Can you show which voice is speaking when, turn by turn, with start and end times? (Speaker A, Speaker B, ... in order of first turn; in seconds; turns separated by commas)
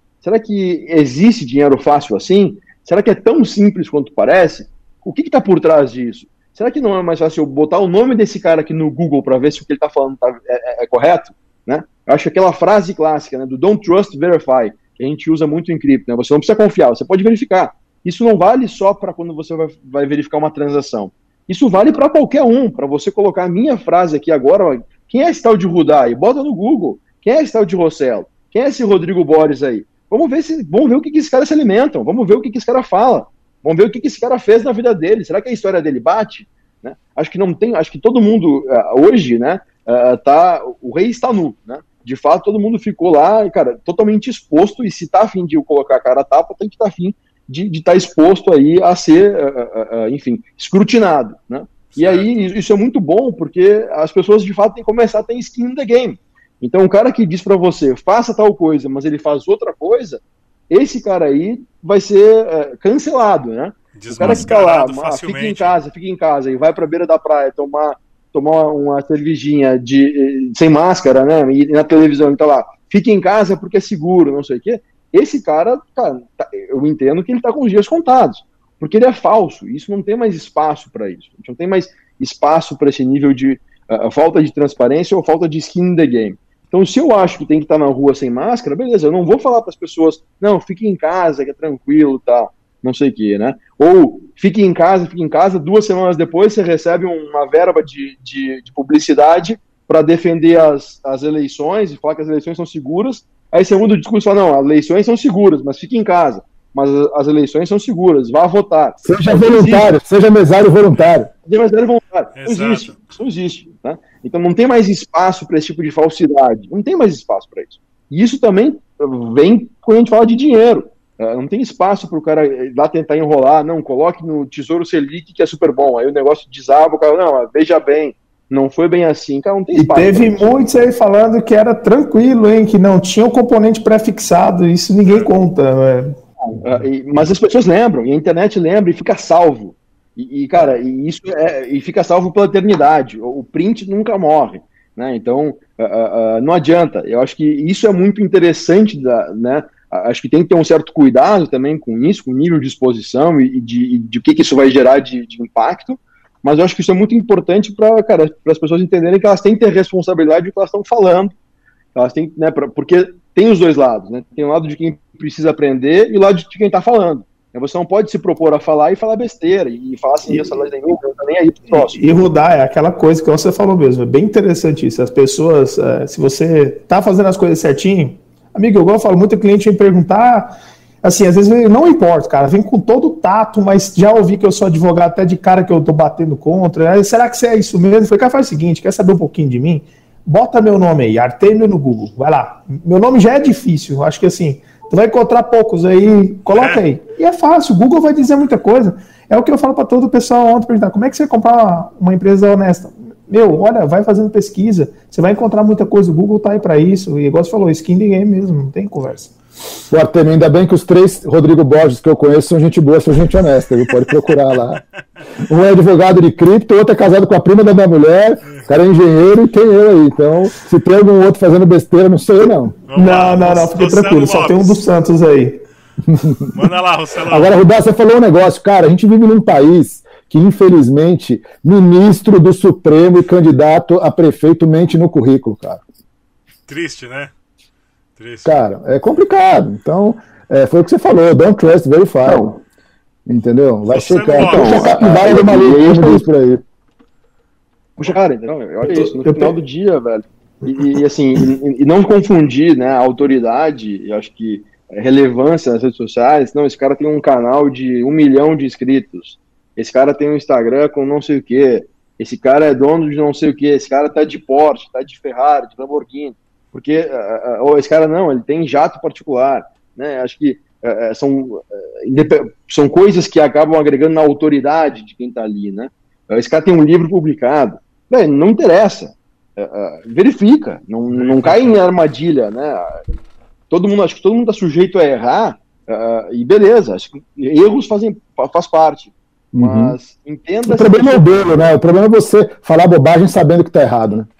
Speaker A: 0.2-109.9, Speaker B: 51.9-52.5, Speaker B: 63.9-65.8, Speaker C: 109.0-111.3, Speaker A: 111.4-130.5, Speaker B: 112.4-113.1, Speaker D: 129.7-136.2, Speaker B: 135.1-135.3, Speaker A: 136.6-161.3, Speaker A: 161.9-172.0, Speaker D: 170.3-170.6, Speaker D: 171.7-209.3, Speaker B: 196.5-196.8, Speaker C: 209.9-214.8, Speaker C: 215.4-222.7, Speaker B: 222.9-224.8, Speaker D: 222.9-225.6, Speaker C: 226.1-226.5, Speaker B: 226.5-227.6, Speaker C: 227.3-235.8, Speaker B: 236.7-237.3, Speaker B: 238.2-238.5, Speaker C: 238.4-242.6, Speaker A: 242.2-242.5, Speaker C: 243.3-246.6, Speaker B: 243.9-245.0, Speaker A: 244.3-246.2, Speaker A: 248.0-283.0, Speaker D: 248.8-249.6, Speaker B: 281.1-281.7, Speaker A: 283.7-291.6, Speaker C: 289.5-289.9, Speaker C: 290.6-294.3